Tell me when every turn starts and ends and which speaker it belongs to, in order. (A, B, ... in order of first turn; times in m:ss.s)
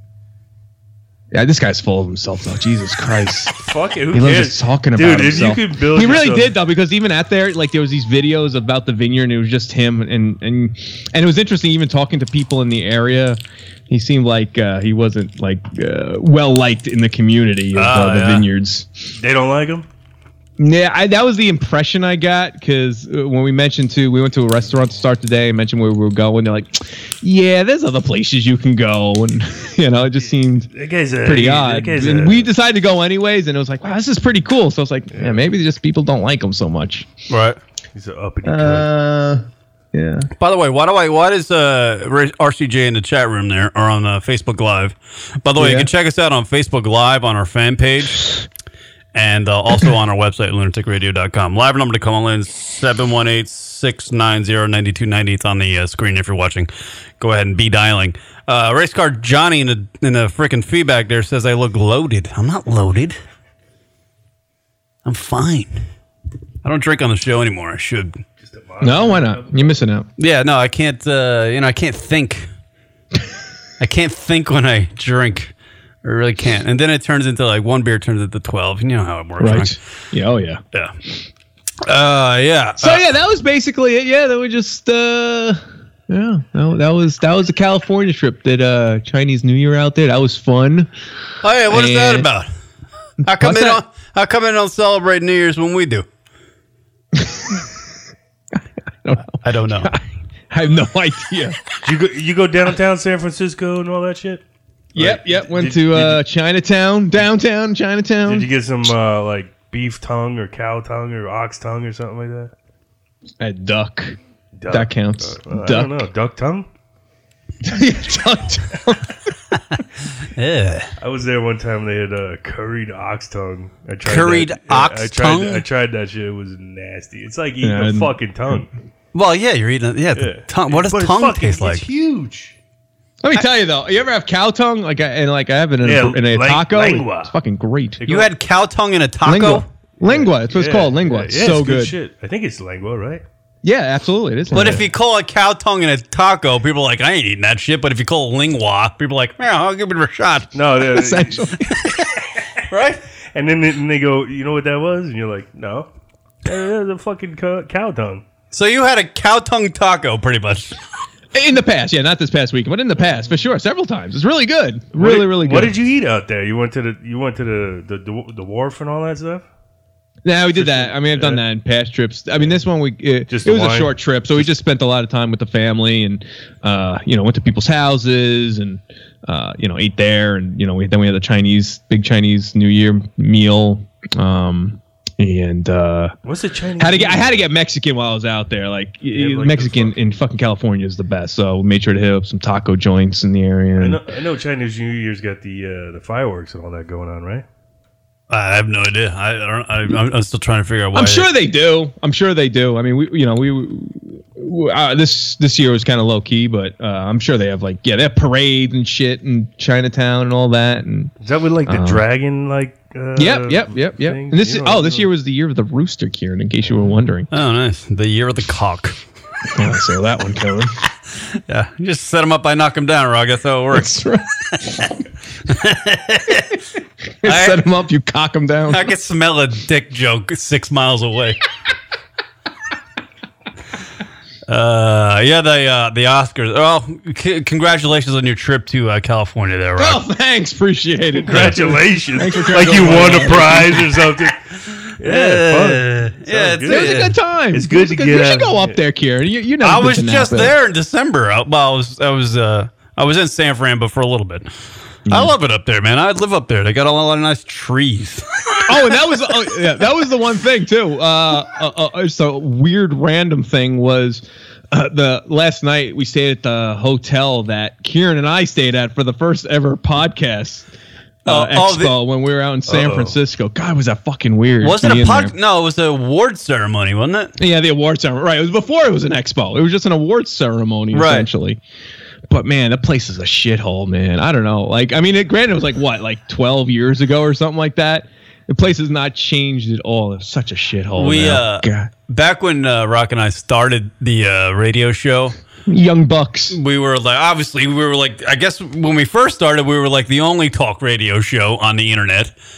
0:01.3-0:03.5 A
0:03.6-0:06.5 B
0:04.1-0:18.9 A
0:17.7-0:18.5 B
0:19.2-0:19.9 B
0:20.6-0:30.7 A
0:30.2-0:32.5 B
0:31.2-0:37.1 A
0:35.1-0:35.4 B
0:37.3-0:37.6 C
0:38.0-0:38.9 B
0:38.4-0:40.3 A
0:40.4-0:48.3 C
0:45.6-0:45.9 A
0:49.1-1:03.2 C
1:05.0-1:05.8 C
1:06.6-1:08.2 C
1:08.4-1:09.8 B
1:08.8-1:10.1 A
1:10.2-1:12.5 C
1:13.8-1:15.5 C
1:16.0-1:19.8 C
1:19.4-1:20.6 A
1:21.9-1:23.0 C
1:22.8-1:30.9 A
1:31.4-1:32.5 C
1:31.7-1:32.3 A
1:33.2-1:33.8 A
1:33.2-1:36.1 C
1:37.2-1:37.7 A
1:39.0-1:41.6 A
1:39.4-1:39.9 C
1:41.8-1:44.4 B
1:45.0-1:48.5 A
1:45.0-1:46.2 B
1:48.2-1:52.5 B
1:53.4-1:54.2 A
1:54.6-1:56.7 B
1:54.7-1:56.0 A
1:57.6-1:59.2 A
2:00.4-2:00.9 C
2:01.0-2:08.7 B
2:04.0-2:05.6 C
2:07.6-2:08.6 A
2:09.1-2:11.8 C
2:10.2-2:12.5 B
2:13.2-2:18.0 A
2:15.8-2:17.3 B
2:18.0-2:18.3 B
2:18.1-2:19.7 C
2:19.2-2:22.0 A
2:20.0-2:23.2 B
2:23.6-2:24.8 A
2:24.5-2:30.5 C
2:24.5-2:24.8 B
2:30.5-2:31.5 B
2:30.8-2:31.7 A
2:32.7-2:33.0 C
2:33.3-2:35.9 B
2:36.4-2:38.2 B
2:38.5-2:40.8 C
2:41.3-2:45.8 A
2:44.9-2:49.4 B
2:50.2-3:06.2 A
2:50.6-2:51.4 B
2:53.3-2:54.0 B
3:06.2-3:07.4 B
3:06.8-3:14.0 A
3:09.1-3:09.9 B
3:13.8-3:17.4 B
3:18.3-3:21.3 C
3:20.9-3:31.1 A
3:31.2-3:35.1 B
3:31.6-3:32.0 A
3:33.2-3:37.3 A
3:37.3-3:39.0 C
3:39.5-3:40.8 A
3:41.3-3:44.0 C
3:43.7-3:44.9 A
3:44.5-3:44.9 C
3:45.5-3:46.6 C
3:47.2-3:48.9 A
3:47.2-3:47.6 C
3:48.7-3:51.4 C
3:54.5-4:00.0 C
3:59.8-4:04.2 A
4:01.3-4:04.4 B
4:05.0-4:07.0 B
4:05.0-4:07.2 C
4:06.7-4:10.6 A
4:07.5-4:08.8 B
4:09.6-4:14.5 C
4:15.1-4:15.3 A
4:15.1-4:18.7 C
4:18.7-4:30.7 A
4:31.2-4:35.3 A
4:31.3-4:32.0 C
4:32.7-4:33.2 B
4:34.6-4:37.3 C
4:37.4-4:41.6 A
4:40.9-4:41.3 C
4:42.3-4:51.9 A
4:51.0-4:55.4 C
4:55.7-4:56.6 A
4:56.5-5:02.3 C